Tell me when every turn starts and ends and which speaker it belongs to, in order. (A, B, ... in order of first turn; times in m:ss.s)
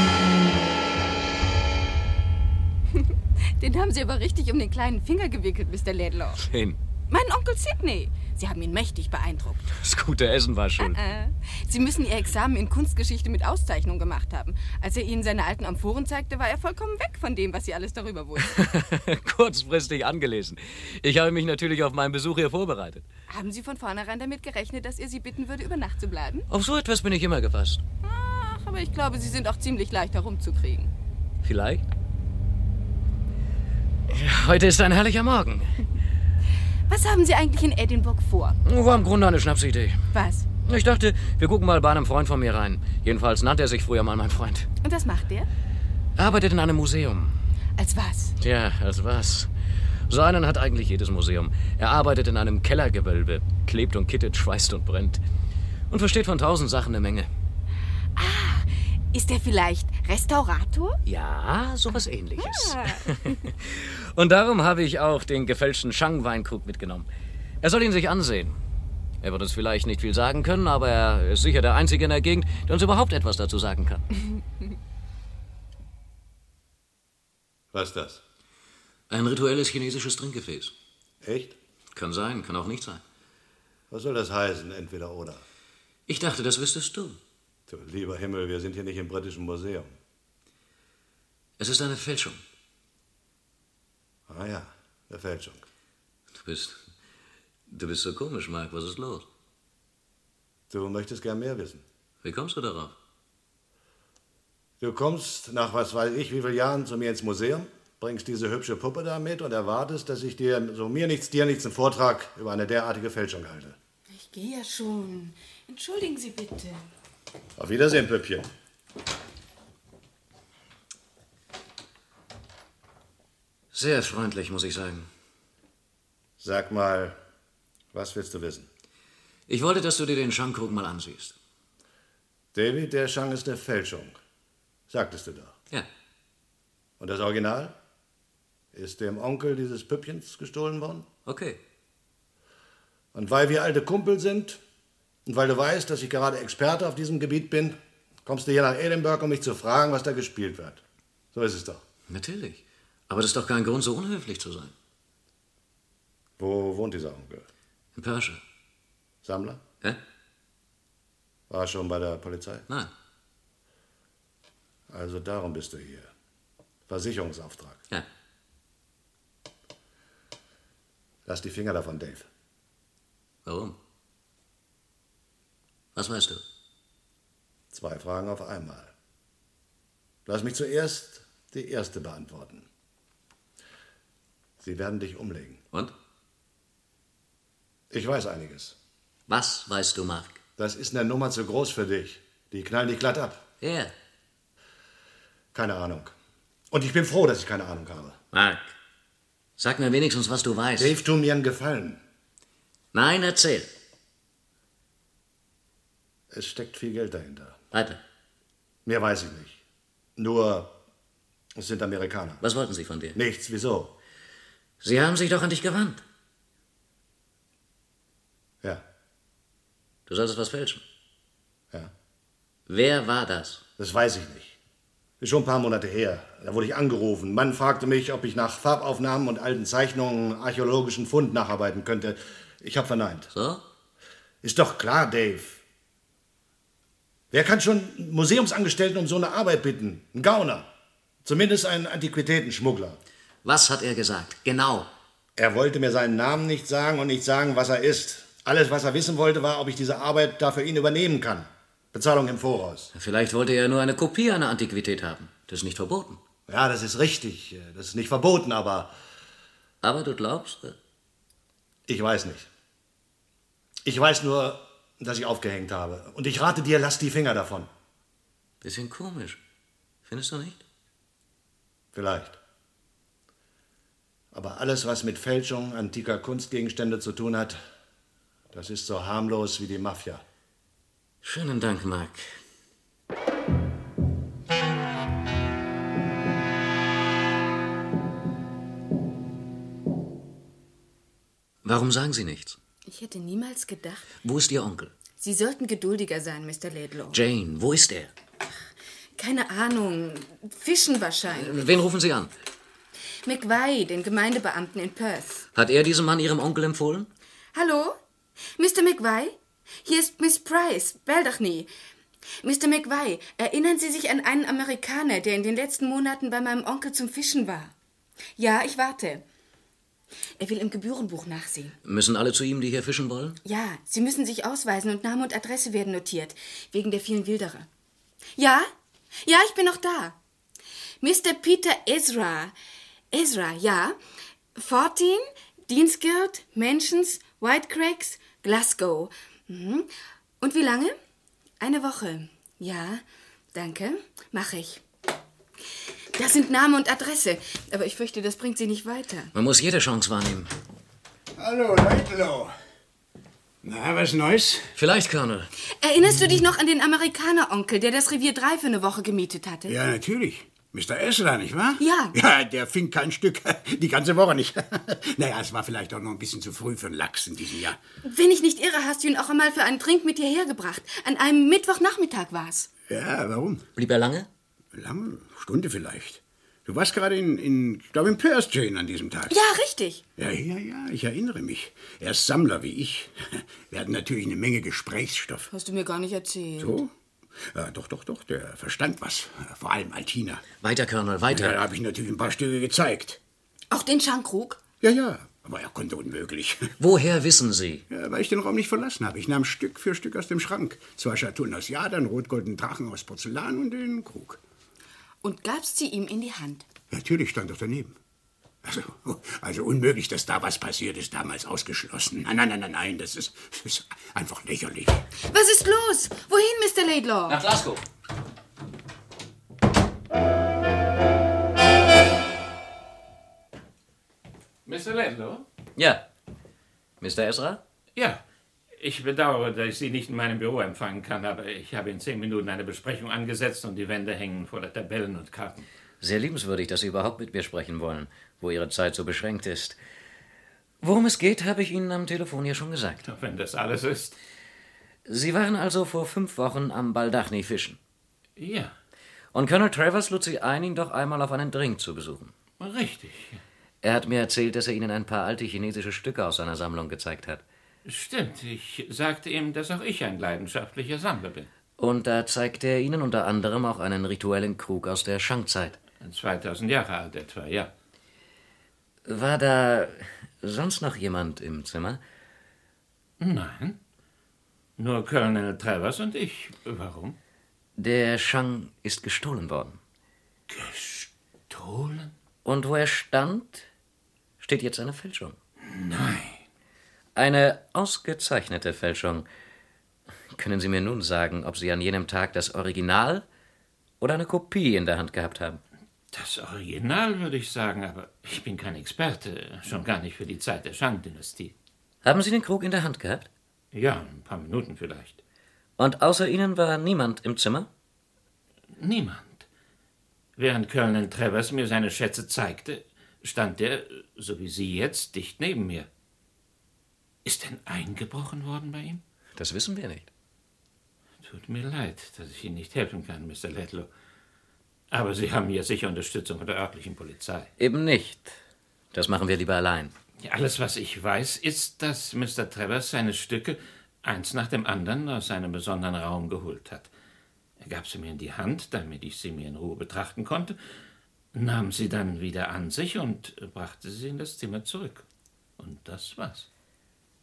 0:02.9-0:06.4 A
0:06.4-0:06.8 B
0:07.1-0:09.7 A
0:09.7-0:11.0 B
0:10.8-0:18.6 A
0:18.5-0:23.0 B
0:23.3-0:26.5 A
0:26.5-0:27.8 B
0:28.0-0:30.9 A
0:31.4-0:31.8 B
0:34.1-0:35.8 B
0:36.9-0:38.6 A
0:38.6-0:40.0 B
0:40.1-0:40.5 A
0:40.6-0:44.7 B
0:44.8-0:45.5 A
0:46.2-0:47.4 B
0:47.8-0:48.3 A
0:48.4-0:49.5 B
0:50.1-0:55.2 B
0:55.9-0:57.3 B
0:58.2-1:01.0 A
1:01.0-1:07.1 B
1:02.4-1:03.1 A
1:07.6-1:08.6 B
1:09.2-1:14.0 B
1:17.7-1:18.2 C
1:19.1-1:20.7 B
1:21.2-1:21.6 C
1:21.9-1:23.0 B
1:23.9-1:25.4 C
1:26.1-1:27.2 B
1:27.7-1:30.0 C
1:31.6-1:32.4 B
1:34.3-1:35.6 C
1:36.3-1:36.8 B
1:37.7-1:39.2 B
1:40.7-1:41.8 C
1:42.2-1:43.0 B
1:44.8-1:53.8 C
1:54.1-1:56.8 A
1:57.6-1:58.5 C
2:03.7-2:05.1 B
2:06.4-2:07.2 C
2:07.9-2:08.7 C
2:09.5-2:11.4 B
2:12.5-2:14.2 C
2:14.9-2:15.5 C
2:17.0-2:17.8 C
2:18.7-2:21.1 C
2:21.2-2:21.6 B
2:23.1-2:24.6 C
2:25.2-2:30.8 C
2:31.3-2:31.8 C
2:32.1-2:34.7 B
2:36.4-2:37.4 C
2:37.9-2:38.4 B
2:39.2-2:39.6 C
2:41.5-2:42.6 C
2:44.9-2:46.1 C
2:46.9-2:47.8 C
2:51.2-2:52.3 C
2:53.4-2:53.8 B
2:55.9-2:56.4 B
2:57.7-2:58.9 C
3:00.2-3:02.7 C
3:04.6-3:05.6 C
3:07.9-3:08.8 C
3:09.3-3:10.4 B
3:10.6-3:13.4 C
3:13.6-3:13.9 B
3:15.5-3:16.1 C
3:16.7-3:18.2 C
3:18.3-3:18.7 B
3:19.6-3:21.0 B
3:20.8-3:22.0 C
3:22.9-3:23.7 B
3:26.3-3:27.6 C
3:27.7-3:28.0 B
3:28.8-3:29.6 C
3:30.2-3:30.8 C
3:31.5-3:32.4 C
3:32.4-3:33.2 B
3:33.1-3:33.9 C
3:34.8-3:36.0 B
3:40.1-3:40.8 B
3:42.7-3:43.6 B
3:43.8-3:44.6 C
3:45.2-3:53.3 C
3:53.3-3:53.6 B
3:54.4-3:55.6 C
3:57.3-4:00.7 C
4:01.2-4:03.0 C
4:03.4-4:04.9 B
4:05.4-4:12.9 C
4:12.9-4:16.2 B
4:16.5-4:18.9 C
4:19.8-4:20.8 B
4:21.9-4:22.5 C
4:23.8-4:27.7 C
4:28.6-4:29.4 B
4:30.0-4:30.6 B
4:31.9-4:32.4 C
4:34.3-4:37.6 C
4:38.5-4:40.2 C
4:41.2-4:42.3 B
4:51.6-4:52.6 B
4:52.9-4:54.1 A
4:54.2-4:54.9 B
4:55.2-4:57.2 A
4:57.1-4:58.1 B
4:59.2-5:01.7 A
5:01.3-5:02.3 B
5:03.2-5:05.5 A
5:05.5-5:07.1 B
5:07.5-5:08.0 A
5:08.6-5:11.7 A
5:12.4-5:17.7 A
5:18.4-5:19.2 A
5:20.4-5:21.8 A
5:21.8-5:23.4 B
5:23.4-5:27.7 A
5:28.4-5:28.7 A
5:29.2-5:30.2 A
5:31.0-5:32.5 A
5:33.1-5:34.0 A
5:34.5-5:39.9 A
5:40.4-5:40.9 A
5:41.6-5:43.0 A
5:43.5-5:44.8 A
5:46.2-5:49.3 A
5:49.3-5:50.5 B
5:51.4-5:52.5 D
5:53.6-5:54.7 D
5:54.7-5:55.5 B
5:55.8-5:59.7 A
5:59.7-6:07.8 D
6:01.8-6:02.1 A
6:08.0-6:12.7 A
6:12.9-6:13.6 D
6:13.8-6:14.3 B
6:14.7-6:19.4 D
6:19.3-6:20.0 A
6:20.2-6:25.5 D
6:25.5-6:26.8 A
6:26.6-6:30.4 D
6:30.6-6:31.6 B
6:31.3-6:33.2 D
6:33.7-6:34.6 A
6:34.8-6:36.7 D
6:36.8-6:37.8 B
6:37.9-6:44.4 D
6:45.2-6:46.6 A
6:46.9-6:48.0 D
6:48.6-6:55.0 D
6:55.3-6:57.4 A
6:57.3-6:57.8 B
7:04.6-7:05.4 E
7:05.8-7:06.0 B
7:07.0-7:07.6 B
7:08.0-7:08.2 E
7:08.8-7:15.7 E
7:16.0-7:19.8 B
7:20.8-7:23.0 B
7:23.0-7:24.1 E
7:25.1-7:27.8 B
7:28.4-7:28.7 E
7:29.3-7:32.3 B
7:32.6-7:33.4 E
7:33.8-7:37.4 B
7:37.8-7:41.5 E
7:41.8-7:45.8 B
7:46.0-7:47.7 E
7:49.0-7:52.0 B
7:53.2-7:53.8 E
7:54.8-7:57.2 E
7:57.8-7:59.8 B
8:00.5-8:02.1 E
8:02.4-8:03.7 B
8:04.4-8:05.4 B
8:05.6-8:06.4 E
8:07.2-8:09.3 B
8:10.3-8:13.2 B
8:14.0-8:15.6 B
8:16.1-8:21.5 E
8:22.0-8:23.3 B
8:23.7-8:25.2 E
8:25.8-8:27.7 B
8:28.8-8:29.4 E
8:30.4-8:35.9 E
8:37.2-8:39.0 E
8:39.4-8:40.1 B
8:41.2-8:43.9 E
8:44.9-8:47.5 E
8:47.6-8:48.4 B
8:48.9-8:49.9 B
8:50.2-8:56.9 E
8:57.6-9:00.6 E
9:01.3-9:05.0 E
9:05.6-9:06.5 E